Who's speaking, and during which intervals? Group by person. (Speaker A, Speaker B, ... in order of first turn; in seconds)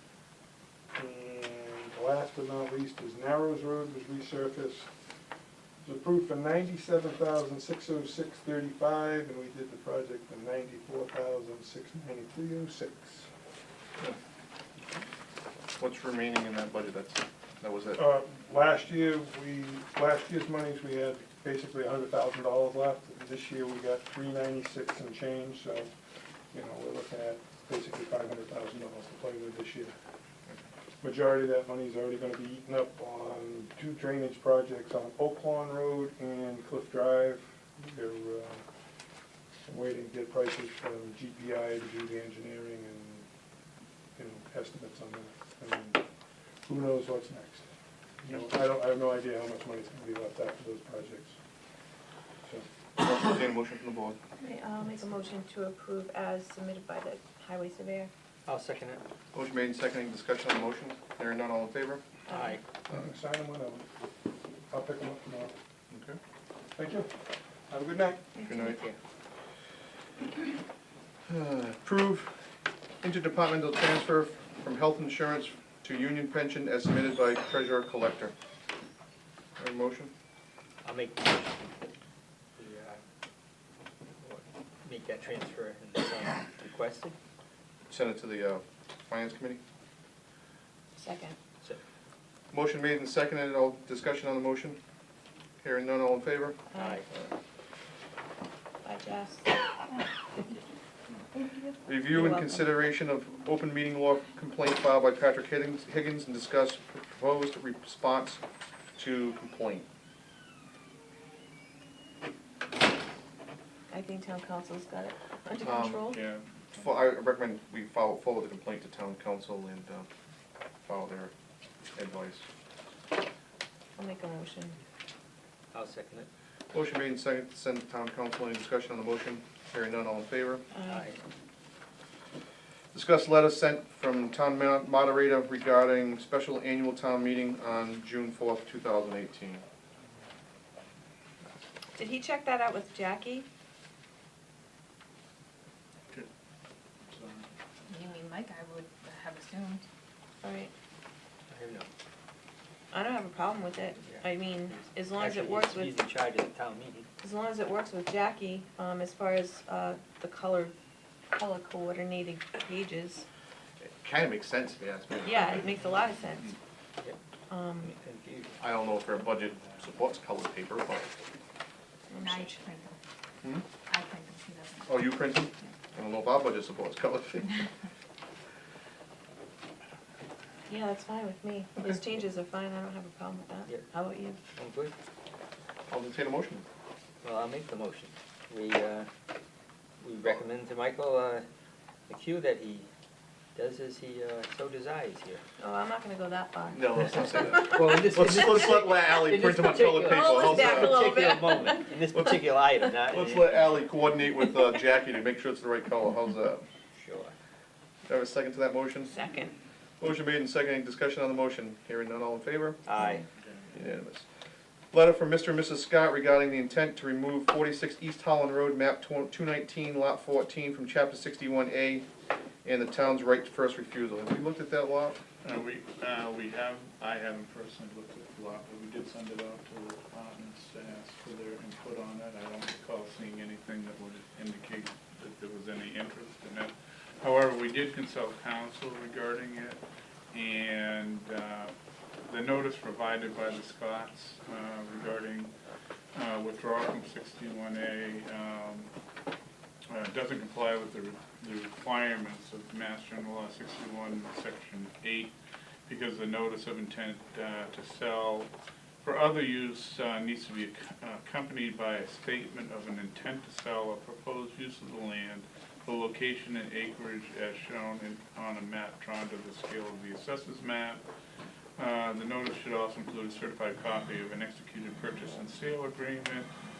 Speaker A: 0.9-4.9, 5.8-13.3, 18.0-25.9, 26.5-29.9, 31.0-38.6, 39.7-43.3, 44.2-46.0, 46.7-47.7, 48.2-51.4, 62.9-63.9, 64.7-65.5, 66.8-67.2, 67.7-68.3
Speaker B: 15.8-18.0, 53.0-54.2, 59.3-62.0, 65.9-66.2, 68.5-68.8, 71.3-72.4, 73.0-78.3, 79.6-80.1, 87.9-89.6, 92.5-94.8, 95.6-96.6, 101.8-108.4, 109.0-109.9, 115.7-116.1, 116.8-120.0, 120.8-121.3, 122.0-122.4, 126.7-130.6, 132.9-139.6, 163.8-165.6, 168.6-171.1, 174.9-177.6, 185.9-186.6, 196.7-201.0, 202.1-202.5, 203.1-206.6, 208.1-209.2, 210.0-212.8, 213.7-214.2, 214.9-222.1, 222.6-225.2
Speaker C: 54.4-58.1, 62.3-62.5, 68.4-68.7, 91.0-91.4, 96.7-97.0, 98.8-99.5, 102.1-102.7, 113.9-116.2, 124.0-124.8, 130.7-131.1, 142.0-143.4, 150.4-150.7, 152.9-156.0, 157.2-160.7, 161.3-163.2, 165.2-166.5, 167.5-167.9, 172.1-172.5, 180.7-184.5, 195.6-197.9, 200.1-201.9, 209.1-209.5
Speaker D: 58.5-59.0, 80.8-81.8, 82.6-83.0, 84.2-87.2, 125.7-126.3, 151.5-151.9, 155.2-157.1, 167.9-168.6, 184.6-184.9, 187.2-189.1, 190.0-191.4, 192.1-192.9, 193.5-195.4, 197.7-203.8, 206.9-207.3, 212.9-213.2
Speaker E: 116.1-116.8, 147.1-147.5, 225.4-239.8, 240.3-241.7, 242.3-245.5, 246.1-248.9, 249.9-255.3, 255.9-258.5, 259.0-271.0, 271.8-276.5
Speaker F: 147.8-149.8, 172.1-173.0, 173.8-174.9